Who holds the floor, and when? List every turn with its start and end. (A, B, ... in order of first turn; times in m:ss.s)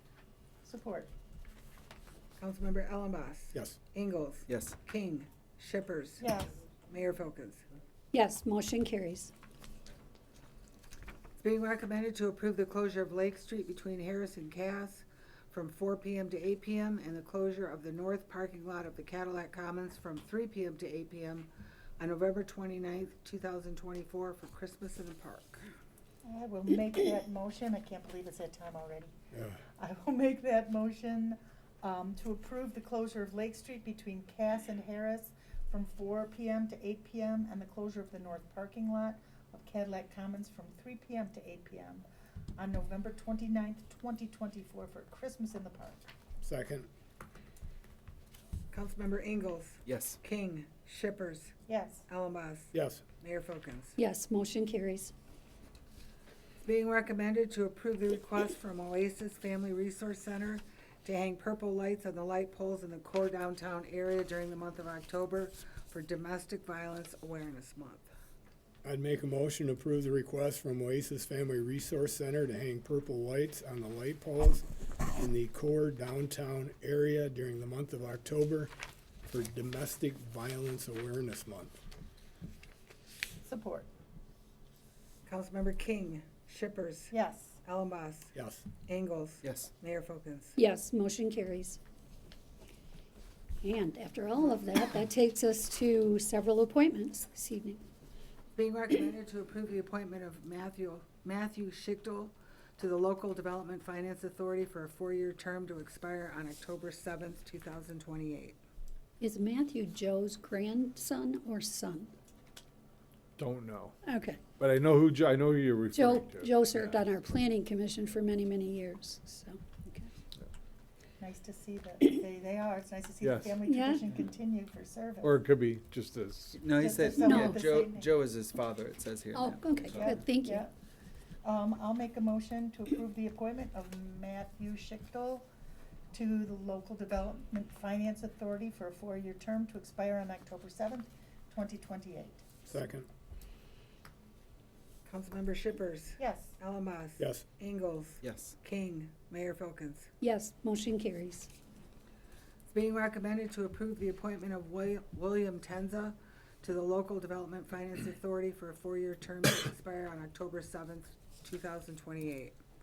0:00.6-0:01.1 A
0:02.4-0:07.6 B
0:04.5-0:04.8 C
0:06.2-0:06.5 A
0:08.1-0:09.3 D
0:11.4-0:25.7 B
0:26.2-0:29.1 A
0:29.3-0:29.6 E
0:29.8-0:46.0 A
0:46.4-0:46.9 E
0:48.7-0:51.5 B
0:49.8-0:50.2 C
0:51.7-0:52.0 A
0:52.1-0:53.9 B
0:52.7-0:53.0 E
0:54.0-0:55.1 D
0:56.6-1:08.1 B
1:08.8-1:18.7 E
1:19.3-1:21.8 E
1:23.4-1:23.9 A
1:25.2-1:27.1 B
1:27.1-1:27.6 A
1:27.6-1:28.3 B
1:28.3-1:28.6 E
1:28.8-1:30.5 B
1:29.4-1:29.7 C
1:30.6-1:31.8 D
1:33.6-1:37.8 D
1:38.6-1:48.6 B
1:49.2-1:52.1 D
1:53.4-1:54.0 F
1:54.0-1:54.4 D
1:54.6-1:57.0 F
1:55.9-2:00.1 D
2:01.2-2:05.4 A
2:03.2-2:03.6 F
2:03.6-2:04.0 D
2:05.2-2:06.6 F
2:06.5-2:10.2 C
2:06.7-2:08.1 A
2:07.2-2:07.6 D
2:09.3-2:10.7 D
2:09.9-2:10.7 A
2:11.4-2:15.4 A
2:16.1-2:22.5 A
2:22.7-2:23.1 E
2:25.0-2:30.1 B
2:26.2-2:26.5 A
2:27.2-2:27.4 E
2:28.2-2:28.5 C
2:30.2-2:31.5 D
2:32.7-2:42.6 B